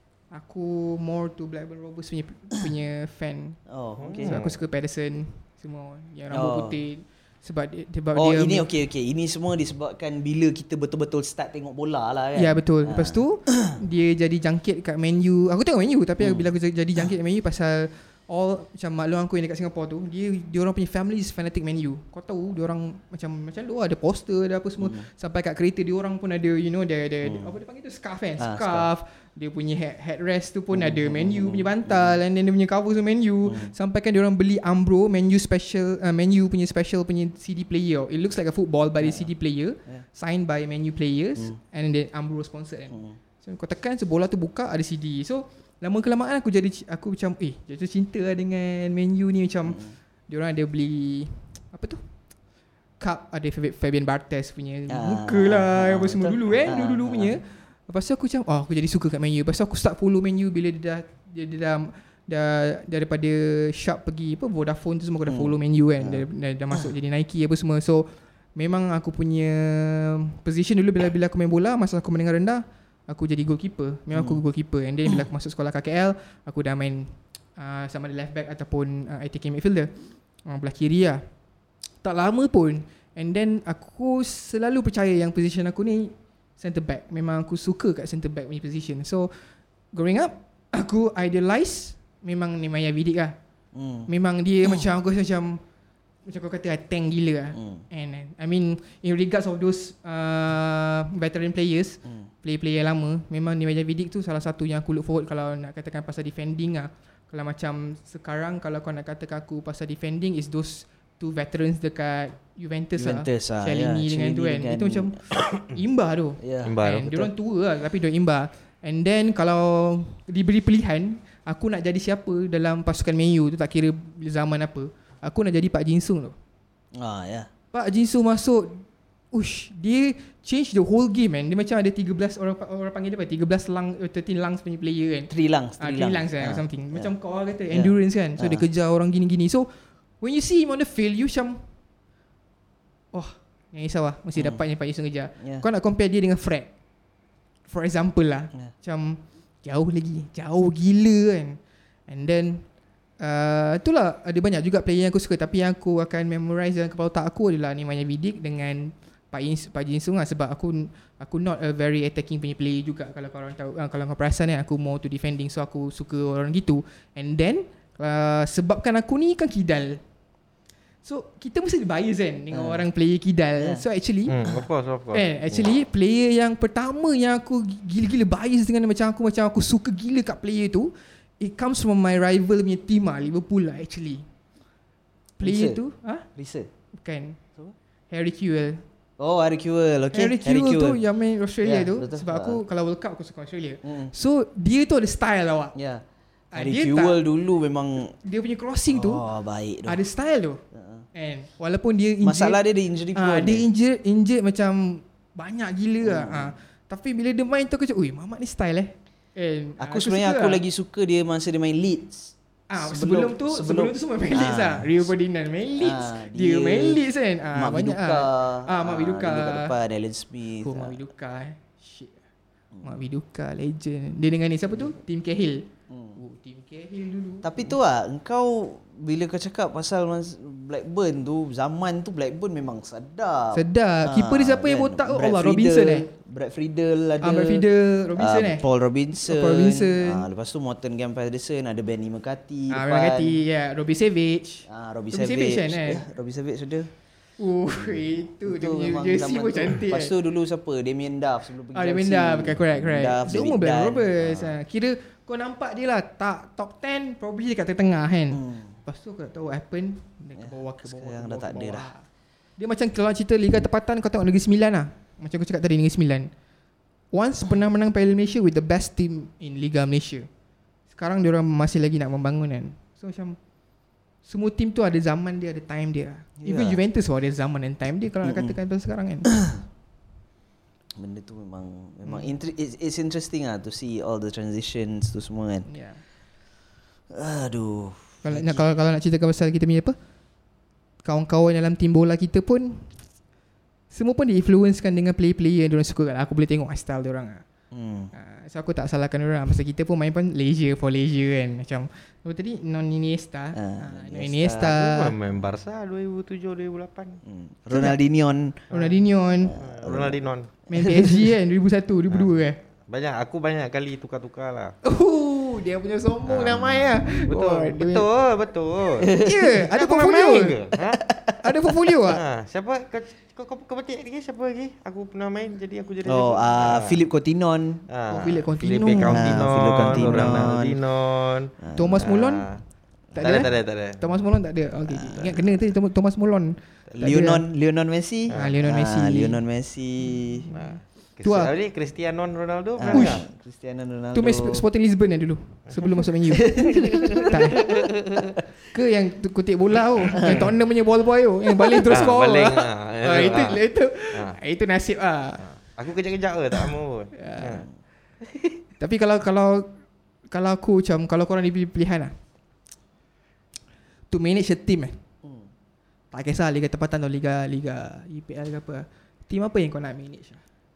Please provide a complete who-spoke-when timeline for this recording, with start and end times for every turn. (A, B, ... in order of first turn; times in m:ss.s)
0:00.3-0:03.6 A
0:03.7-0:04.5 B
0:04.0-0:04.5 C
0:04.2-0:08.7 A
0:06.3-0:06.8 B
0:08.1-0:13.8 B
0:12.4-0:52.0 A
0:16.2-0:16.5 B
0:24.8-0:25.1 B
0:27.2-0:27.5 B
0:28.4-0:28.9 B
0:30.7-0:32.2 B
0:33.4-0:33.7 B
0:39.0-0:39.3 B
0:42.9-0:43.2 B
0:49.7-0:50.0 B
0:53.0-1:19.9 A
0:54.9-0:57.4 B
1:05.3-1:06.9 B
1:14.1-1:14.4 B
1:20.5-1:21.2 A
1:22.0-1:29.3 A
1:29.9-1:33.4 A
1:33.7-1:34.1 B
1:34.1-1:35.6 A
1:36.3-2:06.4 A
1:37.5-1:37.8 B
1:42.0-1:42.3 B
1:53.0-1:55.2 B
1:56.4-1:57.3 B
1:56.6-1:57.1 C
2:06.9-2:07.5 B
2:07.7-2:19.7 A
2:15.3-2:17.1 B
2:17.7-2:18.6 B
2:20.2-2:21.6 A
2:23.1-2:26.7 A
2:25.4-2:25.6 B
2:27.7-2:32.6 A
2:33.2-2:50.0 A
2:51.0-2:54.4 A
2:52.5-2:52.9 B
2:53.6-2:53.8 B
2:54.3-2:55.3 C
2:55.1-3:04.2 A
3:05.4-3:06.3 A
3:05.4-3:05.8 B
3:06.4-3:06.7 B
3:07.0-3:07.4 A
3:08.1-3:08.8 A
3:09.2-3:11.0 B
3:10.1-3:15.8 A
3:11.6-3:12.6 B
3:13.8-3:14.1 B
3:15.8-3:16.0 B
3:16.5-3:17.2 A
3:16.6-3:18.2 B
3:18.2-3:19.2 A
3:18.9-3:20.0 B
3:19.9-3:20.6 A
3:20.7-3:21.0 B
3:21.1-3:22.6 A
3:22.2-3:23.7 B
3:23.2-3:30.6 A
3:26.0-3:26.6 B
3:29.8-3:35.1 B
3:32.7-3:39.8 A
3:35.8-3:41.0 B
3:40.6-3:42.2 A
3:42.8-3:47.8 A
3:45.9-3:46.2 B
3:47.4-4:03.4 B
3:53.5-3:56.1 A
3:57.2-3:58.6 A
3:59.2-4:00.2 A
4:02.7-4:06.0 A
4:04.7-4:06.9 B
4:07.4-4:10.1 A
4:07.7-4:14.6 B
4:11.7-4:22.0 A
4:18.3-4:18.8 B
4:20.4-4:21.9 B
4:22.6-4:26.3 A
4:27.1-4:30.3 A
4:30.9-4:33.4 A
4:34.2-4:39.3 A
4:36.4-4:36.8 B
4:38.2-4:38.6 B
4:39.3-4:39.6 B
4:41.0-4:45.7 B
4:42.1-4:42.3 A
4:45.7-4:46.0 A
4:47.1-4:48.7 B
4:48.2-4:50.0 A
4:51.0-4:53.0 A
4:53.9-4:57.4 A
4:57.7-4:58.1 B
4:58.1-5:05.1 A
5:03.5-5:04.8 B
5:04.6-5:07.2 C
5:07.2-5:08.6 B
5:07.7-5:08.0 A
5:08.7-5:09.0 C
5:08.7-5:09.6 A
5:09.4-5:11.3 B
5:09.5-5:10.5 C
5:10.7-5:12.6 A
5:12.1-5:14.8 C
5:14.8-5:18.1 A
5:16.3-5:21.0 C
5:19.0-5:19.4 B
5:19.1-5:20.6 A
5:21.1-5:21.4 B
5:21.4-5:22.2 A
5:22.1-5:27.0 C
5:26.0-5:27.9 B
5:27.9-5:32.6 C
5:28.1-5:30.5 A
5:28.9-5:30.8 B
5:31.6-5:32.1 B
5:31.7-5:32.5 A
5:33.1-5:33.4 B
5:33.2-5:34.1 C
5:33.2-5:37.4 A
5:34.9-5:35.6 B
5:37.0-5:40.5 B
5:38.3-5:39.4 A
5:40.4-5:41.5 A
5:40.5-5:43.2 C
5:42.8-5:44.6 B
5:42.9-5:43.2 A
5:44.1-5:47.7 A
5:46.3-5:48.4 B
5:46.9-5:47.9 C
5:48.7-5:55.4 A
5:50.1-5:50.5 C
5:50.2-5:50.5 B
5:51.8-5:53.6 C
5:55.4-5:57.6 C
5:57.1-5:57.6 A
5:58.8-5:59.7 A
6:00.3-6:02.1 A
6:04.1-6:05.0 A
6:05.2-6:05.5 B
6:06.1-6:10.4 A